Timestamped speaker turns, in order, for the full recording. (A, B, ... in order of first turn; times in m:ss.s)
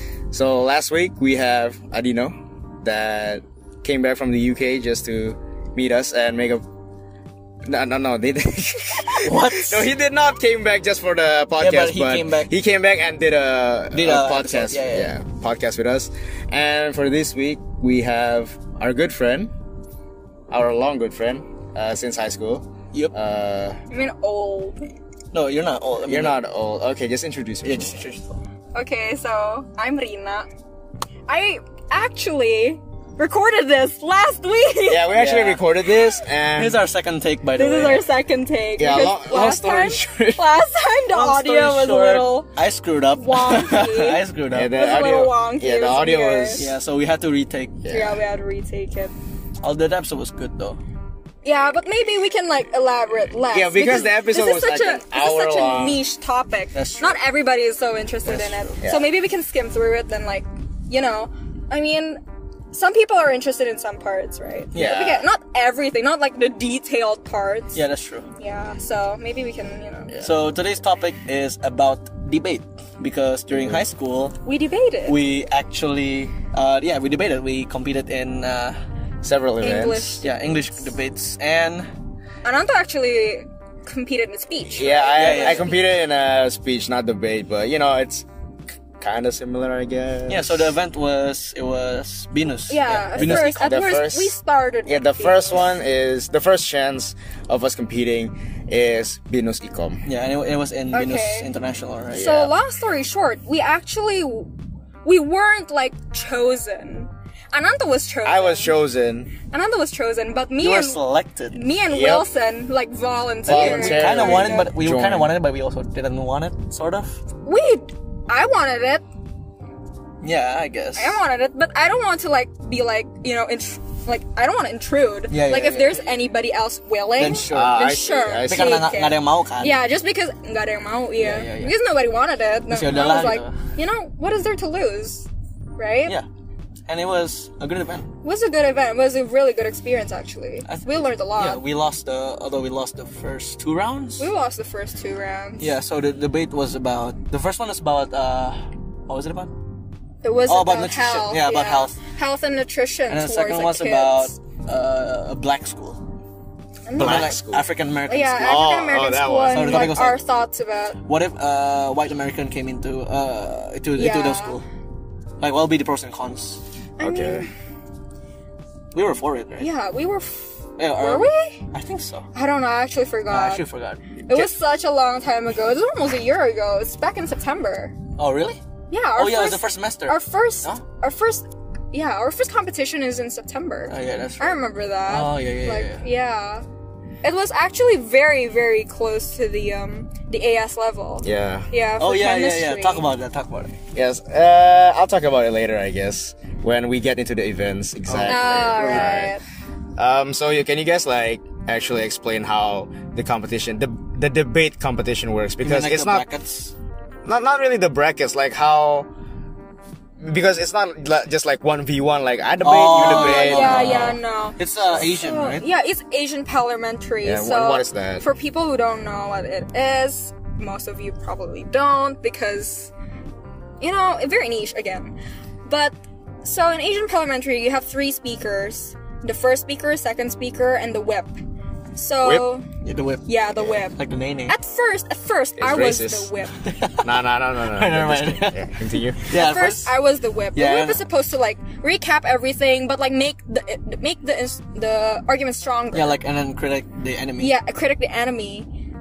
0:00.3-0:06.6 A
0:07.7-0:19.5 A
0:09.2-0:09.9 B
0:11.6-0:12.5 B
0:13.9-0:15.1 B
0:20.5-0:23.8 A
0:23.9-0:24.9 C
0:25.3-0:26.4 B
0:26.1-0:28.0 A
0:27.6-0:28.4 B
0:28.7-0:30.5 C
0:31.3-0:35.2 C
0:34.9-0:36.8 A
0:35.1-0:35.6 B
0:36.6-0:38.1 B
0:37.6-0:42.5 C
0:38.8-0:40.4 A
0:41.1-0:44.7 B
0:43.2-0:44.2 C
0:44.5-0:46.7 A
0:44.7-0:46.7 C
0:46.6-0:47.8 B
0:47.8-0:48.2 A
0:47.9-0:49.1 C
0:49.6-0:50.8 B
0:51.4-1:02.2 C
0:53.5-0:56.0 A
0:56.8-0:57.2 B
0:58.2-0:58.8 B
0:58.8-0:59.1 A
1:02.7-1:07.8 C
1:04.8-1:05.1 B
1:04.8-1:05.2 A
1:07.8-1:08.3 B
1:08.4-1:10.2 C
1:10.2-1:14.4 B
1:13.5-1:13.8 A
1:14.4-1:15.2 C
1:15.0-1:18.8 B
1:19.2-1:20.2 A
1:19.6-1:20.8 C
1:20.2-1:21.9 B
1:22.4-1:25.8 C
1:24.7-1:28.3 A
1:25.2-1:25.7 B
1:29.0-1:30.8 A
1:30.3-1:33.6 B
1:32.7-1:35.7 C
1:33.1-1:34.4 A
1:34.9-1:40.0 A
1:40.1-1:42.4 B
1:40.9-1:41.5 C
1:42.1-1:42.5 A
1:42.1-1:44.5 C
1:45.0-1:48.8 C
1:48.2-1:49.3 A
1:49.5-1:54.7 C
1:50.6-1:51.6 B
1:51.9-1:52.3 A
1:53.5-1:55.3 A
1:53.5-1:57.2 B
1:57.4-1:59.0 C
2:00.2-2:01.2 B
2:01.0-2:16.2 C
2:05.3-2:06.1 B
2:07.2-2:07.8 B
2:07.5-2:08.8 A
2:08.4-2:09.8 B
2:11.2-2:11.8 B
2:12.7-2:13.6 B
2:16.9-2:18.1 B
2:18.2-2:21.6 C
2:20.7-2:24.3 B
2:24.2-2:25.7 C
2:25.6-2:28.6 B
2:29.1-2:29.5 B
2:30.2-2:34.4 C
2:30.5-2:32.0 B
2:33.1-2:36.0 B
2:36.9-2:37.4 C
2:37.0-2:37.7 A
2:37.0-2:38.6 B
2:38.1-2:41.0 C
2:38.4-2:40.0 A
2:39.5-2:40.2 B
2:41.1-2:44.7 B
2:44.0-2:44.6 C
2:45.4-2:46.6 B
2:47.0-2:47.5 C
2:47.0-2:47.5 A
2:48.9-2:49.7 B
2:49.6-2:51.6 C
2:50.8-2:52.3 B
2:52.3-2:53.6 C
2:53.3-2:54.0 B
2:54.3-2:58.0 C
2:58.2-2:58.6 B
2:58.9-3:06.6 C
2:59.2-3:00.8 B
3:03.9-3:06.0 B
3:07.2-3:13.1 C
3:11.2-3:11.7 A
3:12.0-3:13.8 B
3:13.9-3:19.3 A
3:18.1-3:19.0 B
3:18.3-3:19.4 C
3:20.0-3:26.2 A
3:25.6-3:26.7 B
3:27.2-3:29.1 A
3:30.2-3:34.2 A
3:32.6-3:35.6 B
3:32.9-3:42.9 C
3:37.2-3:38.2 A
3:43.8-3:51.4 C
3:52.0-3:52.7 C
3:52.2-3:52.5 A
3:52.8-3:54.5 B
3:53.3-3:56.7 C
3:55.6-3:56.3 A
3:56.6-4:00.0 B
3:56.9-3:59.2 A
3:59.3-4:06.2 C
4:00.6-4:01.0 B
4:05.9-4:07.6 B
4:07.4-4:08.7 C